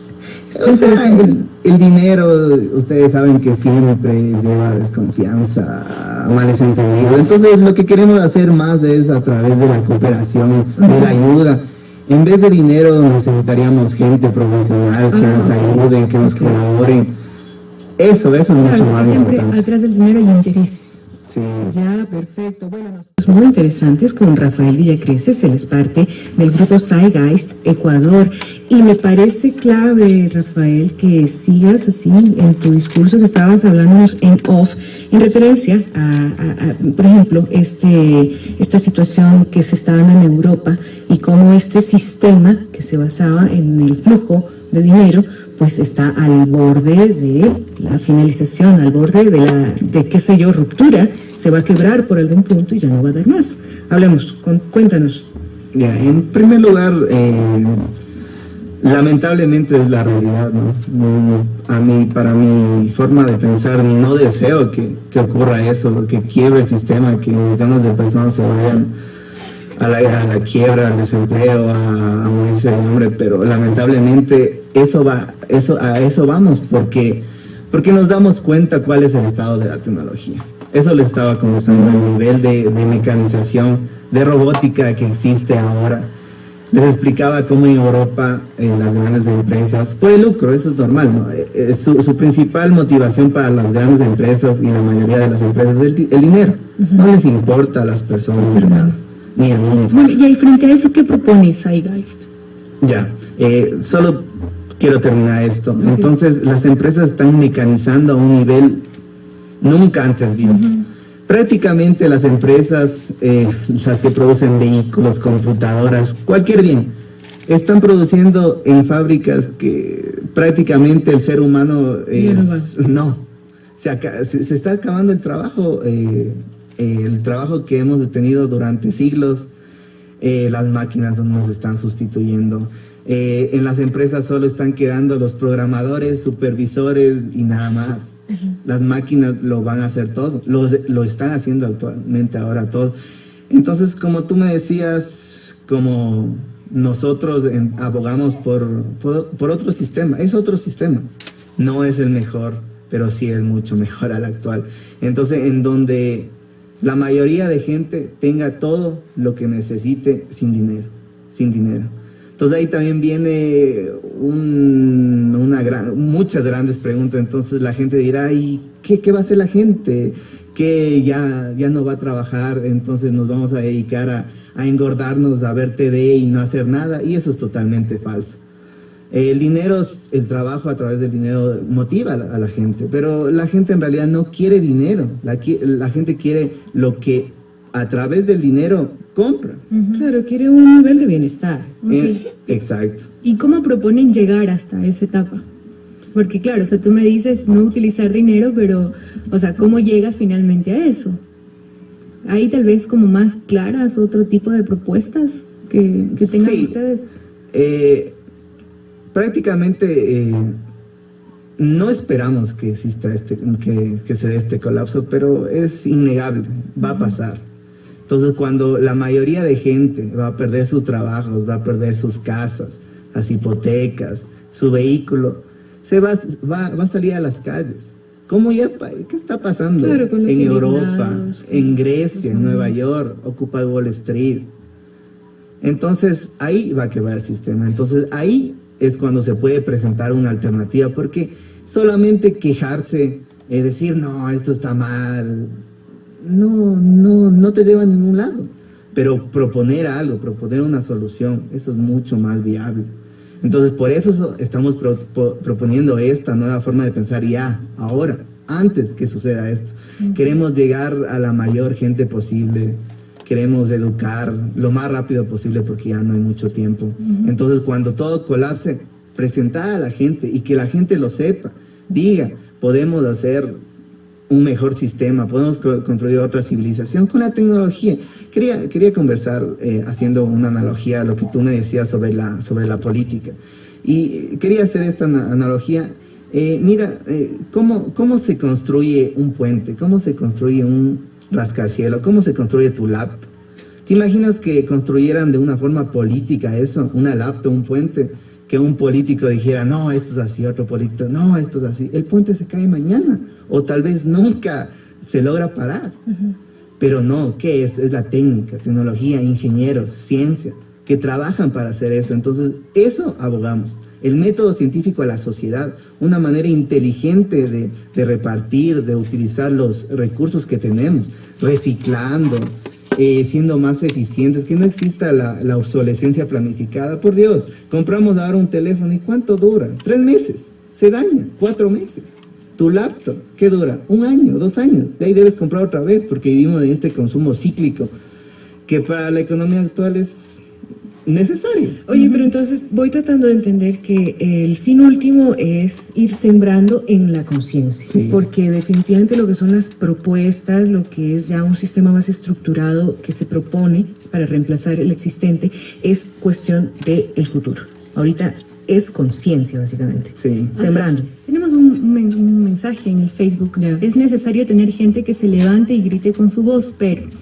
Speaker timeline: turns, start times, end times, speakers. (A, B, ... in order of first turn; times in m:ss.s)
0:00.5-0:01.4 A
0:00.6-0:17.1 B
0:10.8-0:11.1 A
0:15.1-0:16.5 A
0:18.0-0:19.7 B
0:18.6-0:21.0 C
0:21.3-0:21.7 B
0:21.6-0:55.3 A
0:55.7-0:57.9 B
0:58.8-1:08.9 B
1:09.8-1:26.1 B
1:26.7-1:40.1 B
1:38.4-1:39.0 C
1:39.9-1:42.3 C
1:42.8-1:44.3 B
1:44.8-1:48.8 B
1:45.8-1:46.1 C
1:49.6-1:56.9 B
1:50.4-1:50.8 C
1:57.5-2:03.2 B
2:02.1-2:02.7 A
2:03.8-2:09.5 B
2:10.2-2:18.1 B
2:18.6-2:22.9 B
2:23.5-2:58.4 B
2:59.1-3:09.6 B
3:09.7-3:10.1 C
3:09.9-3:11.8 A
3:11.8-3:12.2 C
3:11.9-3:13.1 B
3:13.2-3:15.4 C
3:16.1-3:21.2 C
3:22.2-3:27.1 C
3:26.2-3:26.8 B
3:27.5-3:28.2 B
3:29.1-3:30.6 B
3:31.6-3:37.4 B
3:38.1-3:54.5 B
3:49.8-3:52.8 A
3:55.6-4:05.5 B
4:06.2-4:12.9 B
4:13.4-4:33.6 B
4:27.0-4:27.3 C
4:34.3-4:53.3 B
4:53.9-5:06.0 B
5:06.8-5:37.9 B
5:38.7-5:40.4 B
5:41.0-5:41.8 B
5:41.9-6:01.1 A
5:41.9-5:42.3 C
5:47.9-5:48.2 B
6:00.2-6:00.6 B
6:00.6-6:07.1 C
6:03.6-6:03.8 A